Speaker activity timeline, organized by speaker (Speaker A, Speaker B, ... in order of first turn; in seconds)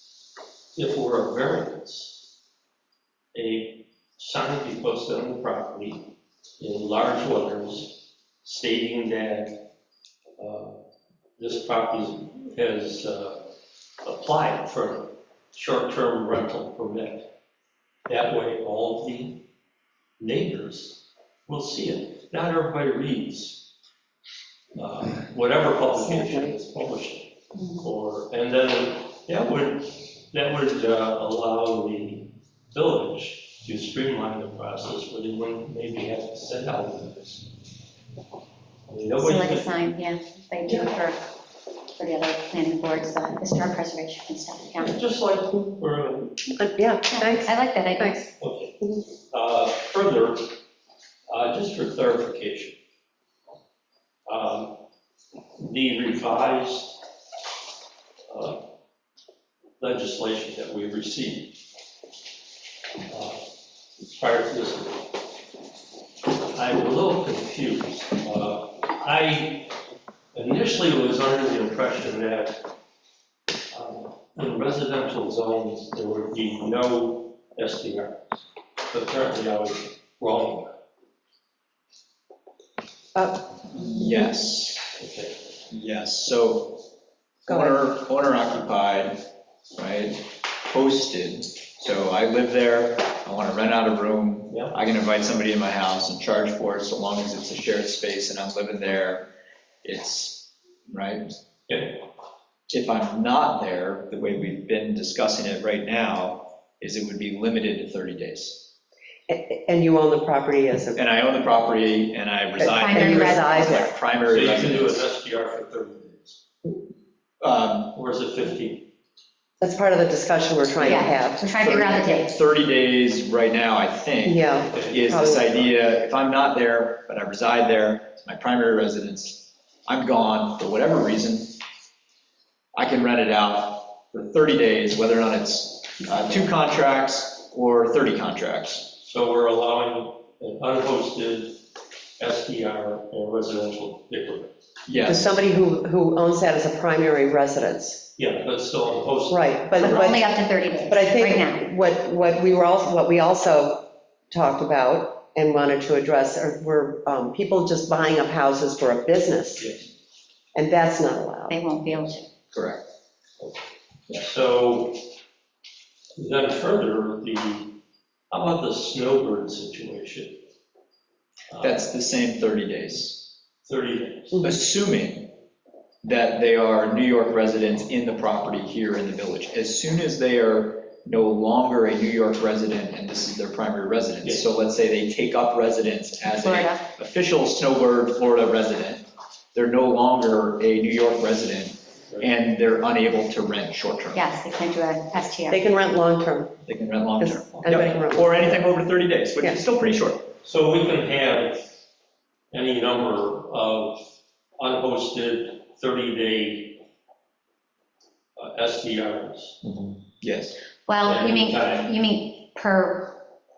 Speaker A: 0.8-2.2, 3.3-9.7, 10.4-10.8, 11.4-13.5, 14.0-17.3, 18.1-19.4, 20.2-23.6, 24.8-37.5, 38.9-39.7, 44.8-46.4, 48.4-50.6, 51.3-52.8, 54.3-54.8, 55.6-57.0, 58.3-58.6, 59.8-61.6, 63.1-63.5, 64.0-65.1, 66.4-69.7, 70.3-72.7, 73.7-80.7, 85.0-85.4, 101.7-102.0, 114.3-116.4, 117.9-118.9, 124.6-125.8, 139.0-141.6, 142.2-144.5, 148.2-150.0, 159.6-159.9, 163.4-165.0, 166.2-167.8, 168.3-170.4, 171.5-171.9, 173.7-174.5, 200.4-201.7, 202.5-204.0, 204.6-206.8, 208.4-209.6, 211.0-211.9
Speaker B: 26.1-26.5, 46.6-48.3, 83.2-84.3, 109.3-111.0, 112.6-114.0, 119.6-121.4, 124.2-125.4, 145.1-148.1, 149.3-150.3, 150.9-159.7, 160.5-161.6, 195.5-196.5, 197.2-198.4
Speaker C: 39.2-41.2, 42.0-45.0, 47.1-48.3, 112.7-113.9, 120.8-122.3, 149.8-151.7, 161.5-162.3, 186.3-186.8, 194.1-195.6, 210.9-213.2
Speaker D: 83.7-84.9, 85.7-86.8, 87.5-89.2, 89.8-99.3, 99.8-101.2, 102.7-108.7, 111.0-115.1, 117.4-118.0, 121.4-131.6, 132.8-138.9, 144.9-145.3, 162.5-162.9, 171.6-173.3, 174.4-175.3, 176.0-194.2, 196.7-200.3, 210.2-210.6